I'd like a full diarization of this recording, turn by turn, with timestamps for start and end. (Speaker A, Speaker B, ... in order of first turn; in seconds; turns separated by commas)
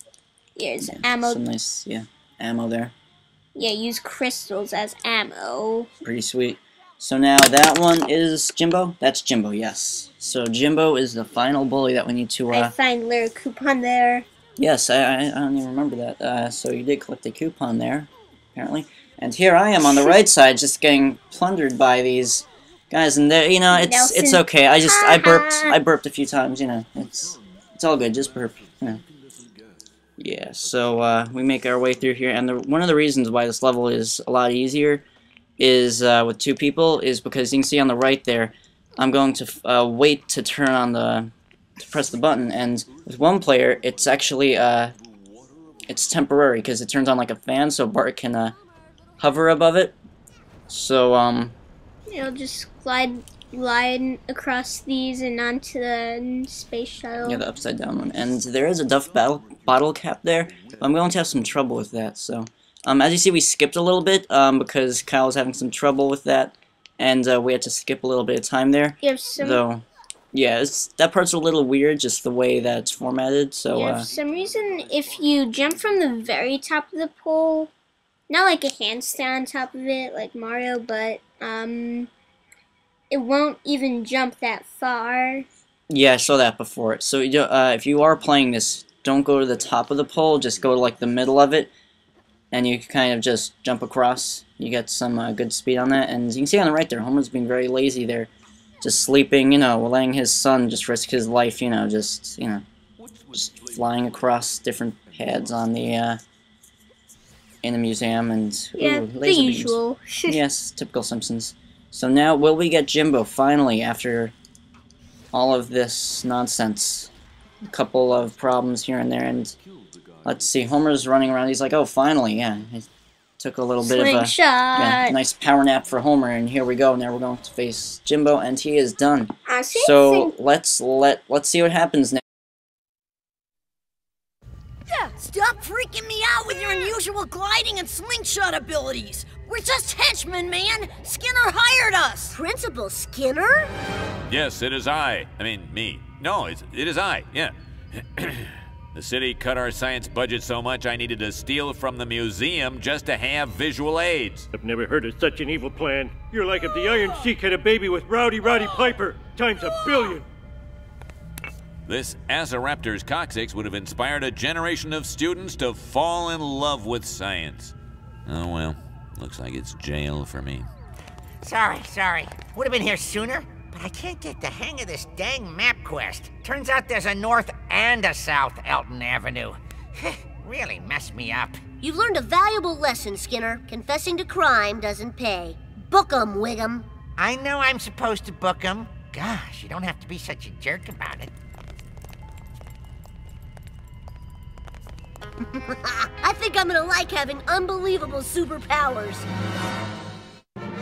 Speaker A: 0.6-1.4, Speaker B: 0.8-2.9, Speaker A: 3.5-5.9, Speaker B: 6.0-12.7, Speaker A: 12.5-14.3, Speaker B: 14.6-29.0, Speaker A: 23.7-25.8, Speaker B: 30.2-35.0, Speaker B: 35.6-45.0, Speaker B: 45.9-48.5, Speaker B: 49.2-50.0, Speaker B: 50.7-51.5, Speaker A: 52.1-57.4, Speaker B: 57.2-74.1, Speaker A: 69.0-69.6, Speaker A: 73.7-77.7, Speaker A: 78.3-82.1, Speaker A: 83.1-85.5, Speaker B: 85.9-91.7, Speaker B: 92.5-98.3, Speaker B: 98.8-102.6, Speaker B: 103.3-106.2, Speaker B: 107.6-114.3, Speaker A: 108.8-110.4, Speaker B: 115.3-117.1, Speaker B: 117.6-119.5, Speaker B: 120.2-122.9, Speaker B: 123.4-132.2, Speaker A: 123.8-125.2, Speaker A: 129.5-130.3, Speaker C: 135.5-137.1, Speaker C: 137.8-141.8, Speaker D: 142.3-143.7, Speaker E: 144.3-147.5, Speaker E: 148.1-154.5, Speaker F: 154.5-160.2, Speaker E: 161.9-167.7, Speaker E: 168.2-170.7, Speaker G: 171.4-181.6, Speaker D: 181.8-186.9, Speaker G: 187.2-191.3, Speaker D: 196.2-199.2